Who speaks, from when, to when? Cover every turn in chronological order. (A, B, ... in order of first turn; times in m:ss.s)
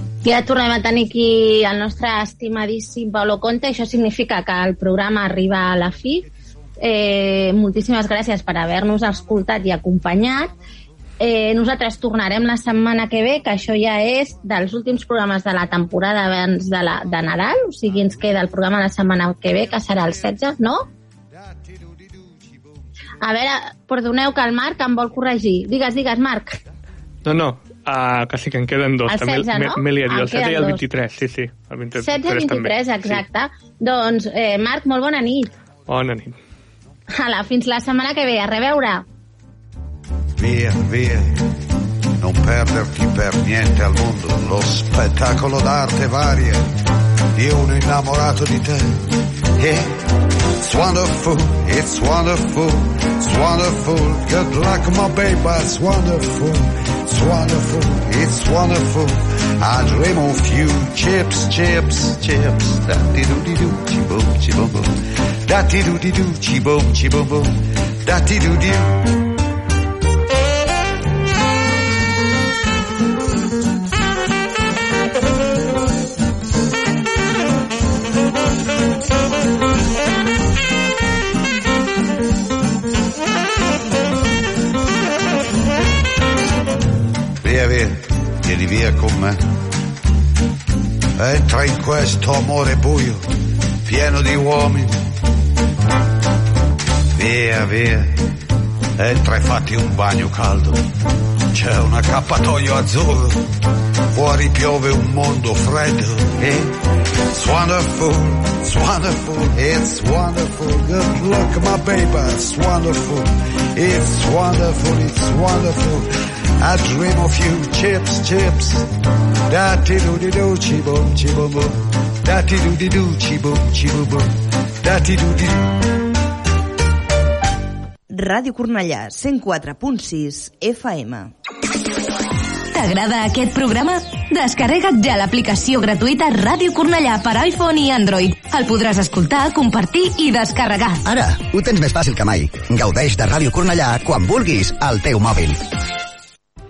0:00.2-0:06.2 A
0:06.8-0:10.5 A
0:11.2-0:20.9 A
0:21.5-0:22.3 B
0:23.2-0:26.6 A
0:27.2-0:33.2 C
0:29.1-0:30.8 A
0:32.0-0:35.5 A
0:35.9-0:36.4 C
0:37.2-0:39.0 A
0:40.4-0:41.5 B
0:42.2-0:46.6 B
0:47.3-0:49.9 B
0:50.6-1:09.0 B
1:27.4-1:29.4 B
1:31.2-1:33.2 B
1:33.8-1:35.0 B
1:37.1-1:38.3 B
1:39.0-1:40.8 B
1:41.5-1:43.5 B
1:44.1-1:46.7 B
1:47.3-1:58.9 B
1:59.5-2:05.8 B
2:08.1-2:11.3 D
2:12.7-2:21.0 E
2:21.0-2:25.6 F